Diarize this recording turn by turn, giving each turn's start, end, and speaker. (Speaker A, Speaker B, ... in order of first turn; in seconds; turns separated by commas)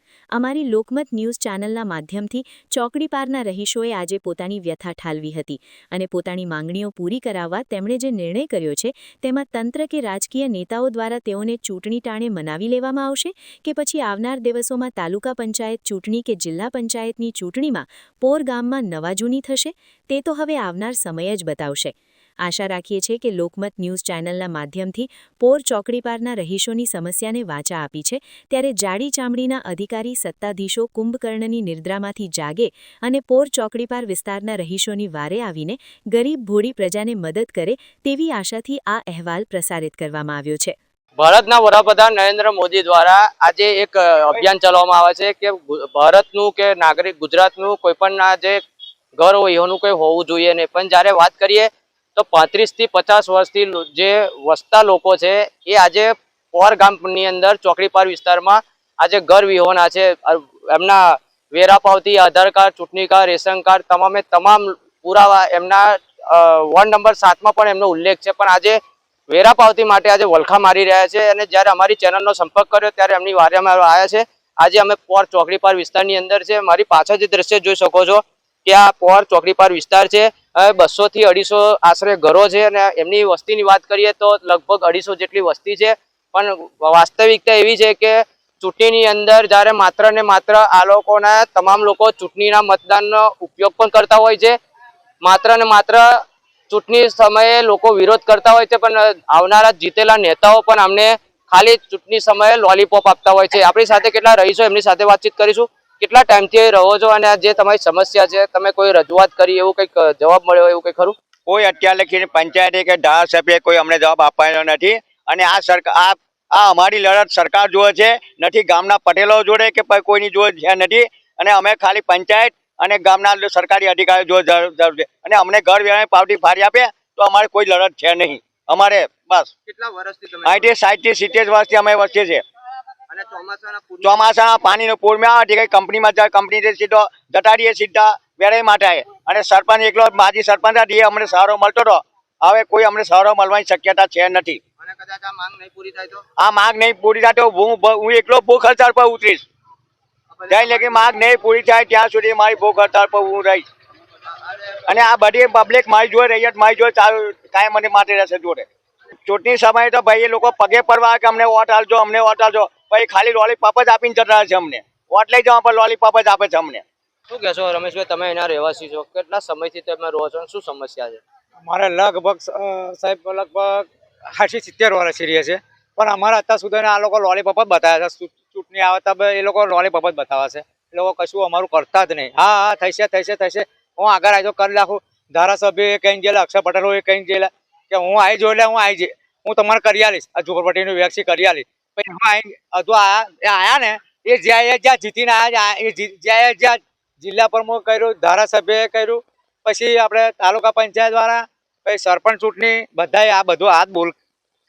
Speaker A: 0.3-21.9, Speaker A: 22.4-40.7, Speaker B: 41.2-48.6, Speaker B: 49.2-94.6, Speaker B: 95.2-111.2, Speaker C: 111.5-129.5, Speaker B: 129.7-130.7, Speaker C: 130.4-132.4, Speaker B: 133.1-134.3, Speaker C: 134.0-144.6, Speaker B: 144.8-146.2, Speaker C: 146.4-149.4, Speaker B: 150.3-151.2, Speaker C: 150.5-153.7, Speaker B: 154.5-154.8, Speaker C: 154.8-158.7, Speaker C: 159.2-166.8, Speaker B: 167.3-171.2, Speaker D: 171.6-204.1